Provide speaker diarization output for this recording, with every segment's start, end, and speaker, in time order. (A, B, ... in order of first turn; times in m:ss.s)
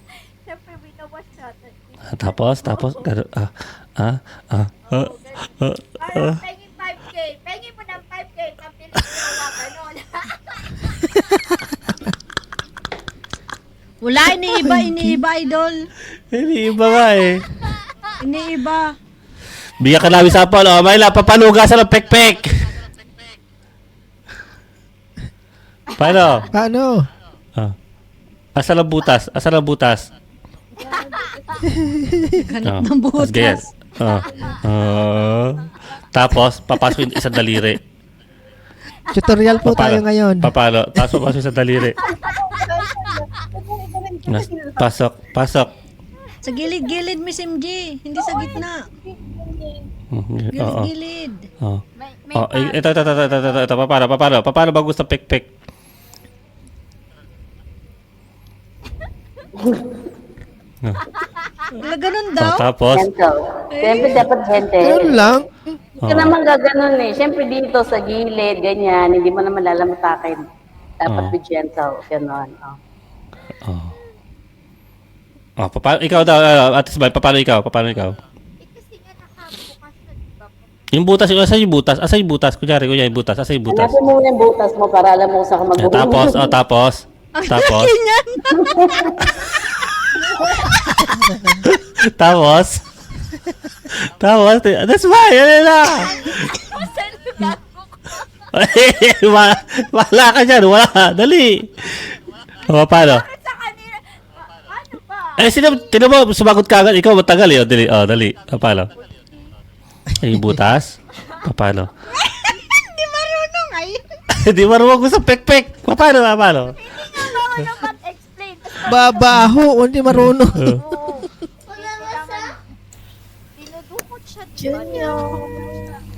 0:00.4-0:03.2 A
0:02.1-0:06.4 B
0:04.8-0:11.2 A
0:14.0-0:15.8 C
0:14.8-0:15.1 D
0:16.3-0:17.4 B
0:16.8-0:17.9 A
0:18.2-0:19.0 C
0:19.8-0:22.7 B
0:26.0-0:26.4 B
0:26.0-0:26.3 A
0:26.5-0:27.1 D
0:28.6-0:30.1 B
0:30.8-0:31.6 A
0:31.8-0:32.3 D
0:32.4-0:33.6 C
0:32.6-0:37.8 B
0:34.0-0:34.6 A
0:39.1-0:41.2 D
0:39.6-0:42.0 B
0:42.0-0:43.1 A
0:42.1-0:44.9 E
0:44.2-0:45.7 B
0:46.4-0:48.9 C
0:48.2-0:48.6 E
0:49.1-0:49.8 E
0:50.1-0:50.9 B
0:50.5-0:51.5 C
0:52.0-0:53.7 A
0:52.3-0:55.5 B
1:01.3-1:01.6 A
1:01.7-1:02.7 C
1:02.4-1:03.1 B
1:02.9-1:05.3 E
1:03.7-1:04.2 C
1:04.8-1:05.6 D
1:06.0-1:06.3 B
1:06.0-1:10.4 E
1:11.0-1:12.8 E
1:11.1-1:11.4 B
1:13.6-1:13.9 B
1:15.6-1:18.2 B
1:18.6-1:21.1 A
1:20.9-1:24.0 B
1:23.7-1:26.5 E
1:25.8-1:27.9 B
1:27.4-1:29.0 C
1:28.5-1:29.3 E
1:31.0-1:32.8 B
1:33.9-1:36.7 B
1:36.0-1:38.2 A
1:38.5-1:42.2 B
1:42.7-1:43.2 B
1:42.9-1:46.0 A
1:45.4-1:48.9 B
1:49.0-1:49.5 A
1:50.2-1:50.9 B
1:51.4-1:51.9 B
1:52.2-1:54.0 C
1:54.3-1:56.8 B
1:56.7-1:59.7 A
1:58.9-2:00.7 D
2:00.1-2:00.8 B
2:00.5-2:02.5 A
2:01.8-2:02.5 C
2:03.6-2:06.0 A